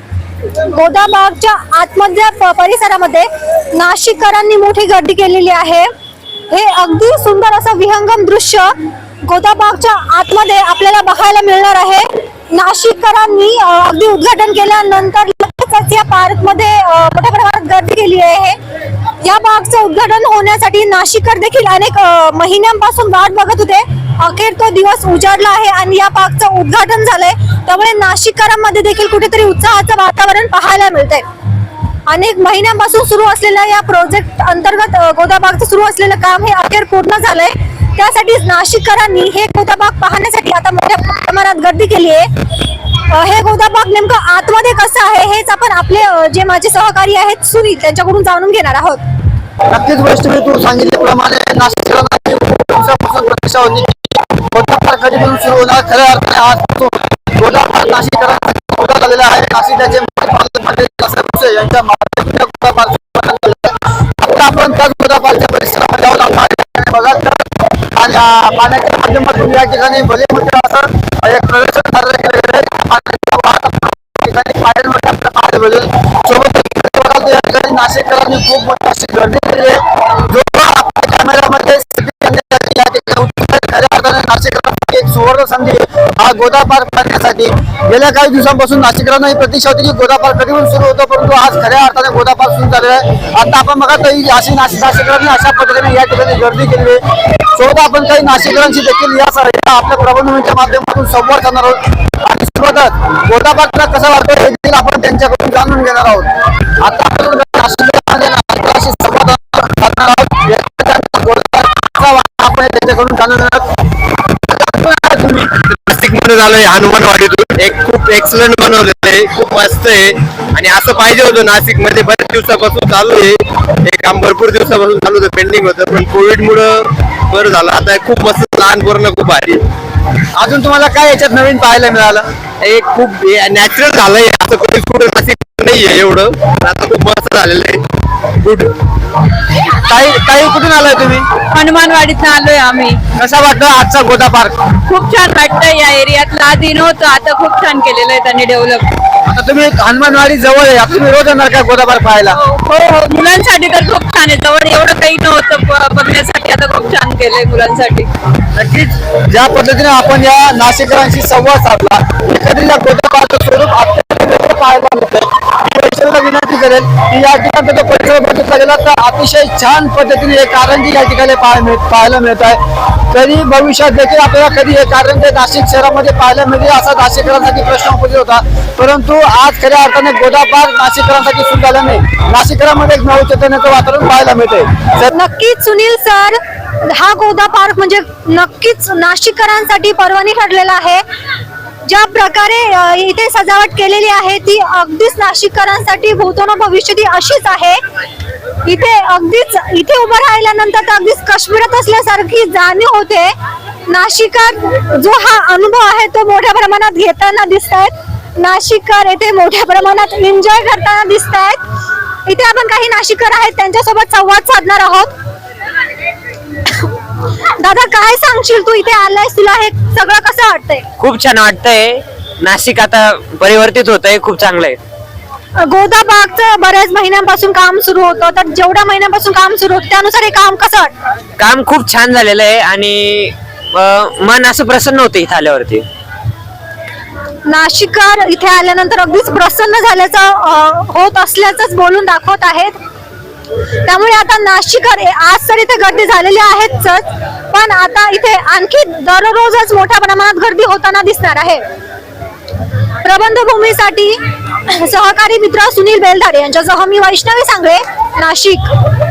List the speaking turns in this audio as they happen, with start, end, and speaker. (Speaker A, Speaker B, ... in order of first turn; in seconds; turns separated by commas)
Speaker A: 0.7-5.9, Speaker A: 6.5-18.6, Speaker A: 19.2-31.2, Speaker A: 32.1-42.3, Speaker A: 43.1-49.0, Speaker B: 49.7-97.0, Speaker B: 97.5-106.3, Speaker B: 106.8-113.7, Speaker B: 114.5-115.5, Speaker C: 115.5-126.7, Speaker C: 127.3-129.6, Speaker B: 130.3-132.2, Speaker C: 132.6-137.8, Speaker C: 138.4-138.7, Speaker B: 139.8-141.2, Speaker D: 141.5-143.0, Speaker B: 143.2-144.6, Speaker D: 144.9-148.9, Speaker B: 149.2-152.4, Speaker D: 152.3-158.1, Speaker B: 158.5-172.6, Speaker B: 173.1-185.1, Speaker A: 185.1-191.0, Speaker A: 191.8-197.8, Speaker A: 198.6-203.3, Speaker A: 203.9-211.6, Speaker A: 212.2-215.1, Speaker A: 217.6-220.8, Speaker E: 221.0-224.8, Speaker A: 225.6-230.9, Speaker E: 231.4-235.8, Speaker A: 237.5-242.8, Speaker A: 243.8-251.6, Speaker A: 253.0-258.6